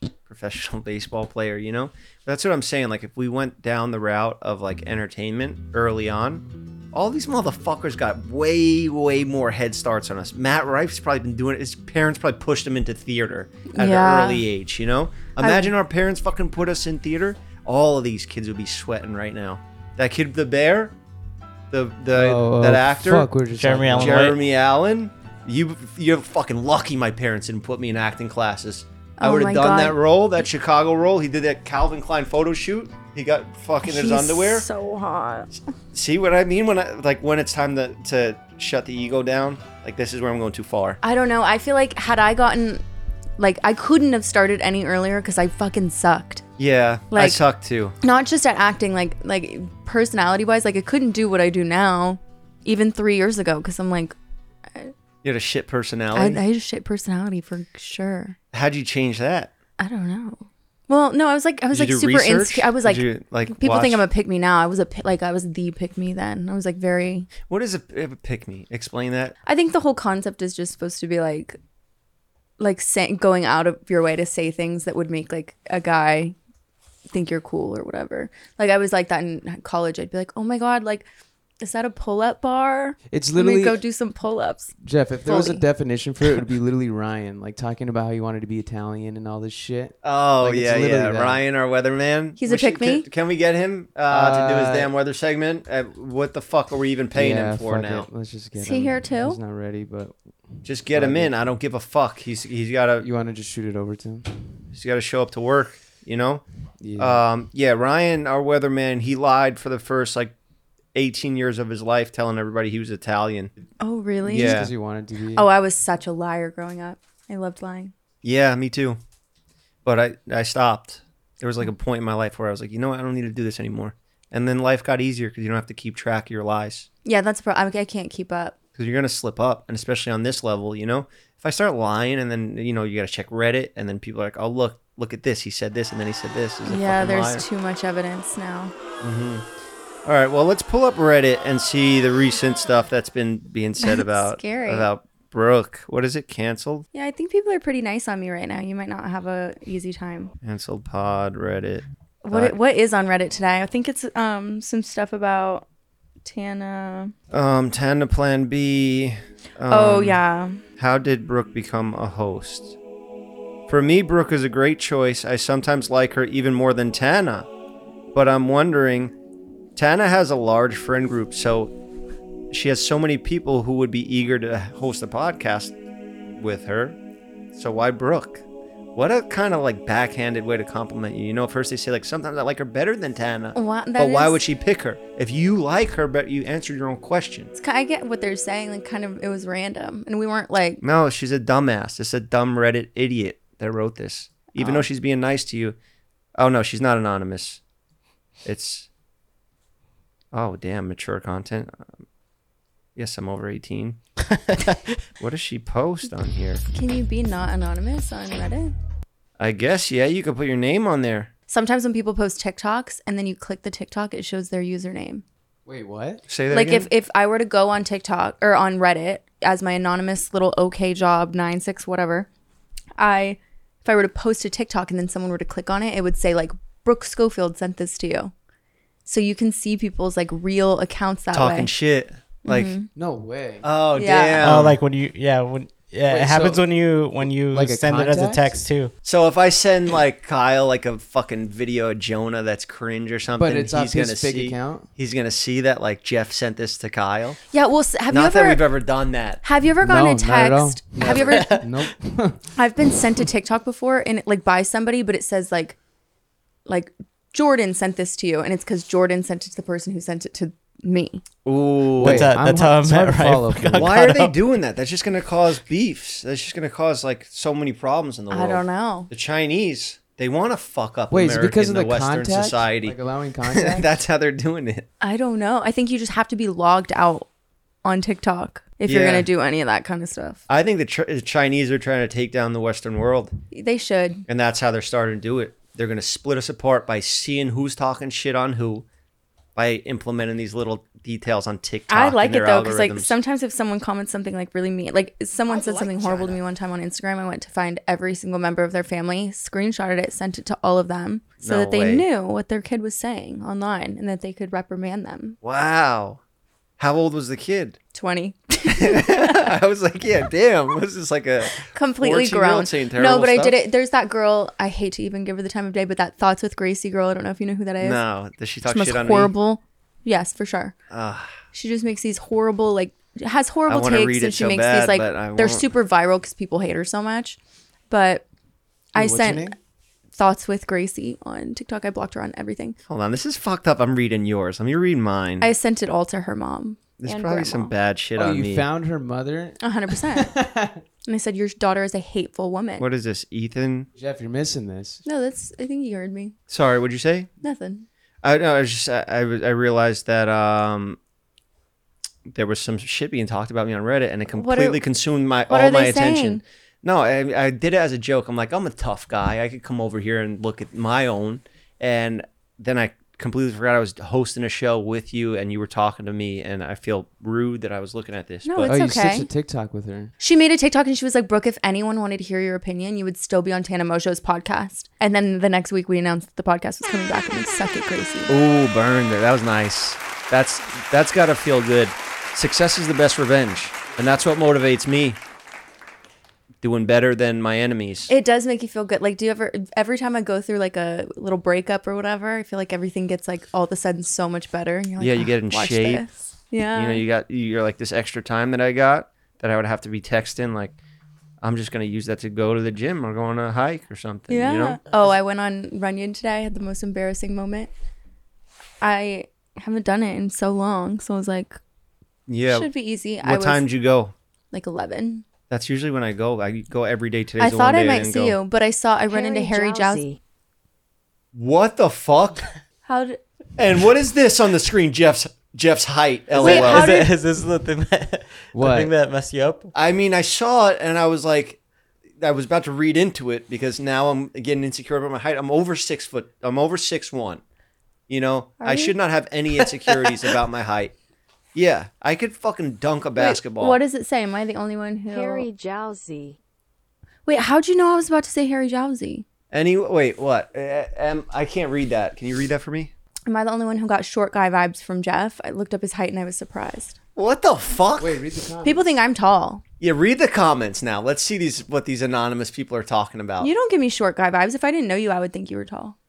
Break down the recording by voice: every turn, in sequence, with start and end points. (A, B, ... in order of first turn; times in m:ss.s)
0:00.3-0:20.9 A
0:13.7-0:14.4 B
0:15.4-0:15.7 B
0:21.7-0:23.3 A
0:22.1-0:24.3 C
0:23.6-0:24.4 D
0:23.9-0:34.7 A
0:29.2-0:30.0 B
0:33.8-0:35.5 B
0:35.9-0:41.0 A
0:41.0-0:42.8 B
0:43.4-0:46.4 B
0:46.6-0:47.9 A
0:47.1-0:47.4 B
0:48.0-0:54.2 B
0:55.2-0:56.4 A
0:56.1-0:58.4 B
0:58.5-0:59.5 A
0:59.8-1:07.3 B
1:01.7-1:04.0 A
1:07.4-1:09.4 A
1:09.4-1:11.6 B
1:12.6-1:16.4 B
1:17.1-1:21.0 B
1:21.6-1:24.7 B
1:23.1-1:23.8 C
1:24.8-1:31.4 C
1:25.2-1:25.6 B
1:30.0-1:38.1 A
1:32.4-1:33.0 B
1:34.1-1:34.9 C
1:37.1-1:41.4 C
1:38.6-1:39.4 B
1:40.6-1:43.1 A
1:43.0-1:44.3 C
1:44.7-1:46.4 A
1:46.8-1:47.2 C
1:47.0-1:50.3 A
1:50.9-1:53.5 A
1:53.8-1:54.6 B
1:54.2-1:54.7 A
1:54.4-1:55.5 C
1:55.3-1:57.9 B
1:58.2-1:59.0 A
1:59.8-2:06.9 A
2:07.0-2:08.6 B
2:08.8-2:17.4 A
2:16.6-2:18.7 B
2:19.0-2:19.4 A
2:20.0-2:26.9 A
2:23.8-2:24.9 B
2:26.9-2:30.3 B
2:30.4-2:32.5 A
2:32.2-2:35.6 B
2:36.2-2:37.1 B
2:37.3-2:40.2 A
2:39.7-2:40.6 B
2:40.8-2:42.8 A
2:43.7-2:47.5 A
2:48.1-2:49.1 A
2:49.8-2:51.7 A
2:52.5-2:55.7 A
2:56.4-2:57.0 A
2:57.5-2:58.4 A
2:58.9-3:07.5 A
3:03.5-3:04.4 B
3:07.5-3:10.8 B
3:10.8-3:15.8 A
3:14.6-3:14.8 B
3:16.4-3:17.6 A
3:18.4-3:18.9 A
3:20.3-3:22.0 A
3:23.0-3:24.0 A
3:24.3-3:24.8 D
3:25.2-3:26.6 A
3:26.7-3:28.7 B
3:29.4-3:31.3 A
3:31.5-3:35.2 B
3:35.6-3:36.2 C
3:36.3-3:36.9 A
3:36.5-3:42.3 B
3:43.0-3:48.3 B
3:49.0-3:51.7 B
3:51.3-3:52.7 A
3:52.4-3:52.9 B
3:52.9-3:53.6 C
3:53.6-3:54.8 A
3:54.0-3:54.6 B
3:54.4-3:58.9 D
3:56.1-3:56.6 C
3:57.2-3:58.6 C
3:59.0-4:07.4 A
4:03.4-4:04.9 C
4:07.5-4:08.6 B
4:08.1-4:09.4 A
4:09.4-4:11.6 B
4:09.8-4:12.4 C
4:11.0-4:11.6 A
4:12.6-4:15.8 B
4:16.7-4:21.2 B
4:21.4-4:22.3 A
4:22.0-4:24.0 C
4:22.0-4:24.4 D
4:23.7-4:33.0 A
4:28.3-4:29.1 B
4:31.1-4:33.9 C
4:33.5-4:34.8 A
4:35.0-4:37.3 B
4:37.8-4:40.4 B
4:38.8-4:39.3 A
4:40.5-4:43.3 A
4:43.5-4:44.2 B
4:44.3-4:48.8 A
4:49.5-4:53.1 A
4:51.9-5:05.4 B
4:55.5-4:56.3 E
5:01.4-5:02.0 A
5:05.4-5:06.2 A
5:06.8-5:07.8 A
5:07.9-5:09.4 B
5:08.7-5:13.6 A
5:11.6-5:18.0 B
5:17.8-5:19.3 A
5:18.6-5:20.7 B
5:20.9-5:21.3 A
5:21.5-5:27.4 B
5:23.7-5:25.7 A
5:27.9-5:28.2 B
5:28.9-5:29.5 B
5:28.9-5:29.5 A
5:30.1-5:32.8 B
5:32.9-5:35.5 A
5:35.4-5:37.7 B
5:37.0-5:38.7 A
5:38.2-5:40.8 C
5:39.6-5:40.3 B
5:41.0-5:42.8 B
5:42.8-5:43.9 A
5:43.9-5:45.0 C
5:45.0-5:46.3 B
5:46.5-5:47.3 A
5:47.4-5:47.8 B
5:48.2-5:51.0 A
5:52.3-6:08.7 A
5:54.4-5:54.8 B
5:55.5-5:56.4 B
6:08.4-6:09.3 B
6:08.6-6:10.1 C
6:10.2-6:18.3 B
6:18.3-6:25.2 A
6:26.6-6:28.1 A
6:28.1-6:37.0 B
6:35.0-6:36.0 A
6:36.7-6:40.8 A
6:41.4-6:44.8 A
6:44.3-6:47.7 B
6:48.8-6:51.6 B
6:52.3-6:52.7 A
6:52.5-6:53.6 B
6:53.2-6:54.1 A
6:54.5-6:55.2 B
6:55.5-6:58.4 A
6:57.4-7:00.1 B
6:59.1-7:00.2 E
7:01.3-7:02.5 A
7:02.8-7:03.2 B
7:03.6-7:07.0 A
7:06.4-7:07.1 B
7:06.4-7:09.7 D
7:08.5-7:08.9 C
7:09.7-7:11.6 A
7:12.2-7:17.4 A
7:18.1-7:20.9 A
7:18.6-7:18.9 B
7:21.5-7:23.8 A
7:23.2-7:25.5 B
7:25.1-7:26.4 E
7:27.3-7:29.2 B
7:29.5-7:32.9 A
7:33.3-7:37.0 B
7:37.2-7:38.1 A
7:38.0-7:38.9 C
7:38.6-7:39.6 B
7:39.8-7:43.5 A
7:43.4-7:46.0 B